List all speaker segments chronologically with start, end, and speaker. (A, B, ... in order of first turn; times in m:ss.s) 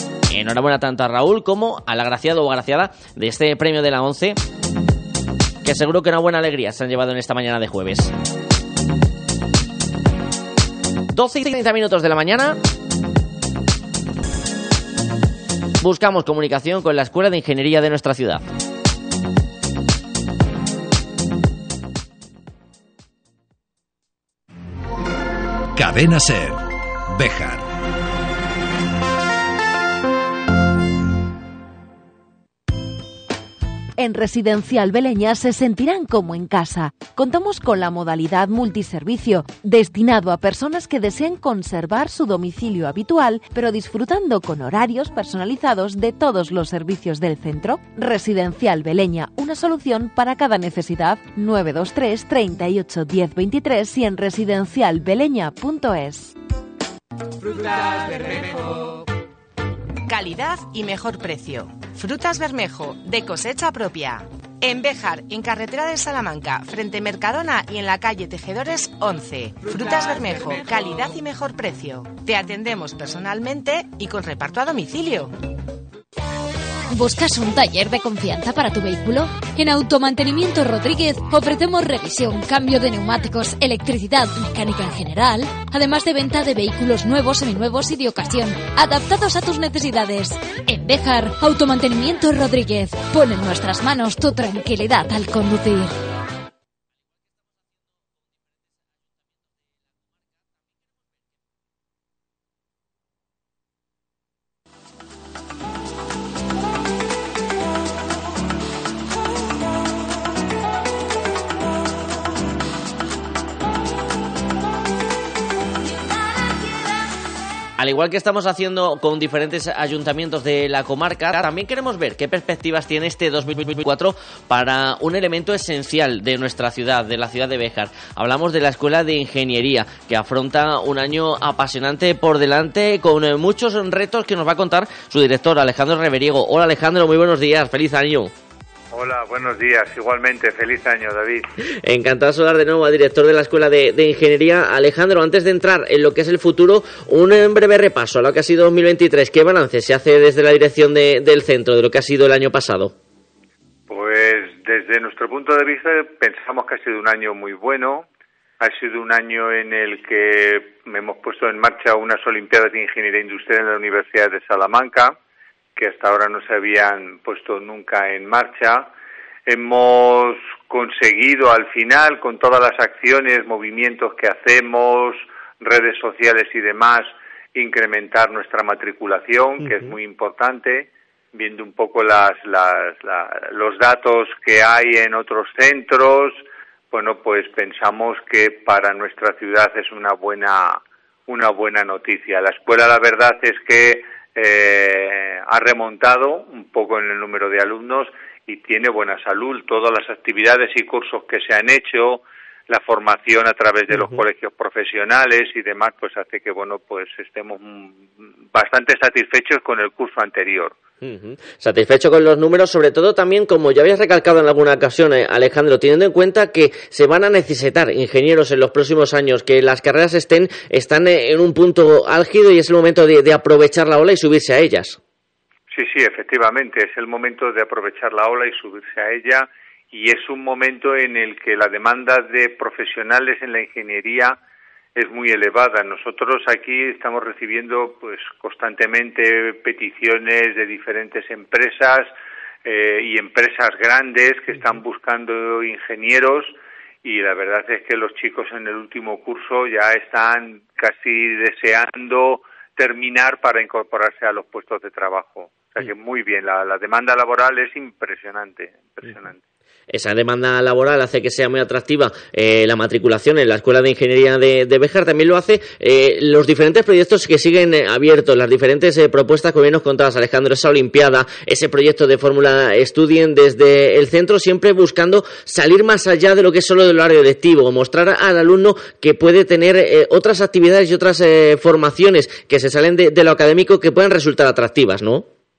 0:00.3-0:04.4 A
0:05.6-0:08.1 A
0:11.1-0:12.6 A
0:15.8-0:18.4 A
0:25.7-0:27.7 B
0:34.0-0:56.3 C
1:00.1-1:15.3 D
1:16.9-1:35.9 E
1:57.8-2:18.3 A
2:18.9-2:21.5 F
2:21.8-2:32.9 A
2:33.9-2:38.1 F
2:38.6-2:45.2 F
2:45.8-2:48.9 F
2:49.5-3:30.8 F
3:23.9-3:24.2 A
3:31.0-3:45.0 A
3:45.7-3:54.4 F
3:54.9-4:02.1 F
4:02.6-4:19.4 F
4:19.9-4:45.2 A